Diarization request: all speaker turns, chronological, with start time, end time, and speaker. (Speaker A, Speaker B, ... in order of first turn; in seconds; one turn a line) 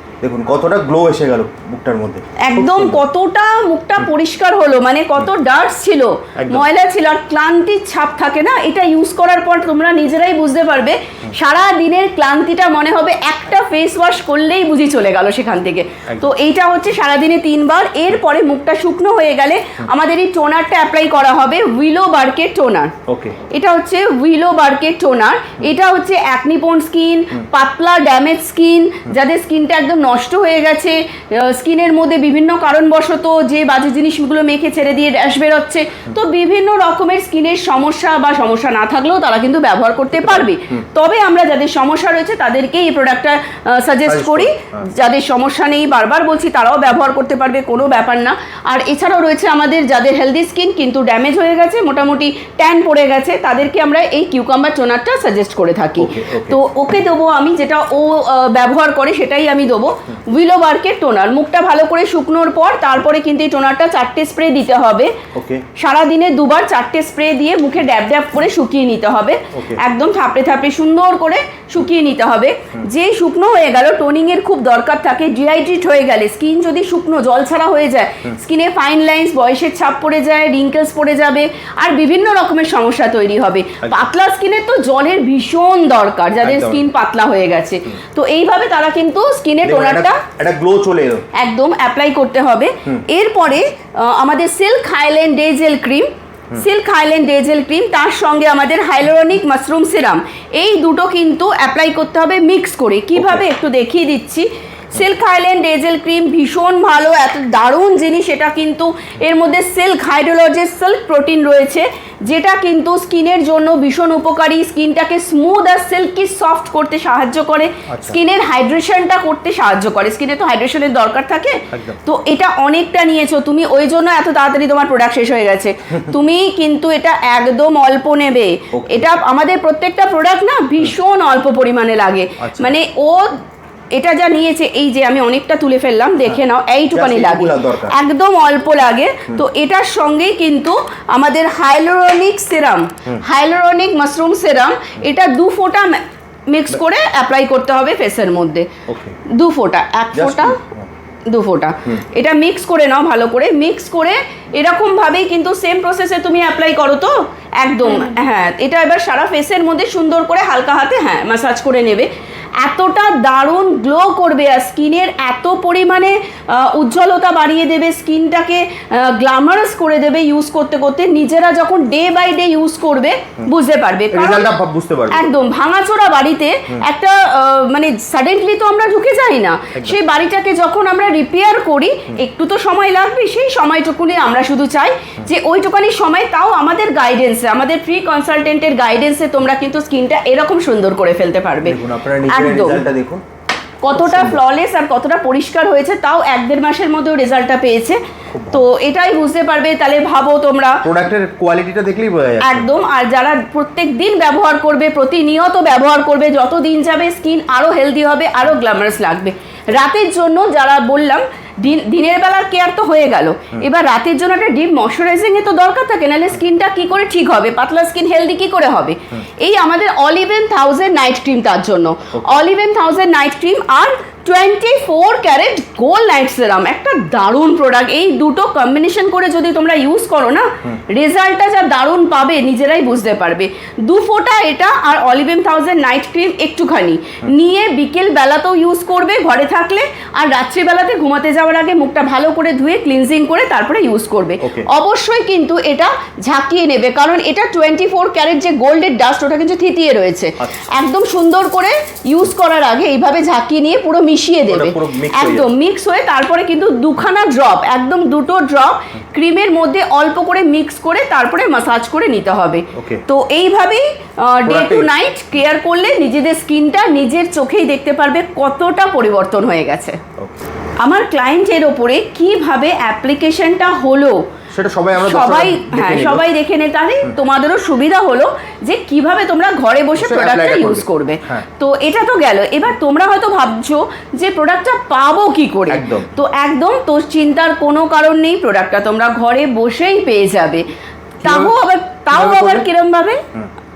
Speaker A: 0.2-3.0
Speaker B: 2.4-22.9
Speaker A: 6.3-6.7
Speaker A: 16.1-16.3
Speaker A: 23.1-23.4
Speaker B: 23.5-65.1
Speaker A: 40.1-40.8
Speaker A: 44.0-44.9
Speaker A: 56.0-56.6
Speaker A: 65.3-65.6
Speaker B: 65.8-90.2
Speaker A: 69.5-69.8
Speaker A: 83.8-84.1
Speaker A: 86.4-86.9
Speaker A: 89.6-91.2
Speaker B: 91.3-133.4
Speaker A: 103.2-103.4
Speaker A: 117.9-118.2
Speaker A: 121.7-122.0
Speaker A: 128.7-129.1
Speaker A: 132.4-132.8
Speaker B: 133.9-148.7
Speaker A: 136.9-137.9
Speaker A: 148.9-149.2
Speaker B: 149.2-150.6
Speaker A: 150.1-150.9
Speaker B: 151.3-174.5
Speaker A: 174.1-175.3
Speaker B: 175.1-192.8
Speaker A: 179.7-180.0
Speaker A: 191.6-193.2
Speaker B: 193.8-198.0
Speaker A: 193.9-194.4
Speaker A: 198.3-198.7
Speaker B: 198.5-200.8
Speaker A: 200.8-202.7
Speaker B: 202.4-270.0
Speaker A: 222.1-222.4
Speaker A: 244.4-244.7
Speaker A: 250.4-250.7
Speaker A: 254.5-255.5
Speaker A: 262.7-263.0
Speaker A: 264.4-264.9
Speaker B: 270.8-274.2
Speaker A: 274.5-276.2
Speaker B: 274.9-290.6
Speaker A: 279.9-281.4
Speaker A: 285.7-286.1
Speaker A: 291.2-291.6
Speaker B: 291.2-293.2
Speaker A: 292.1-292.7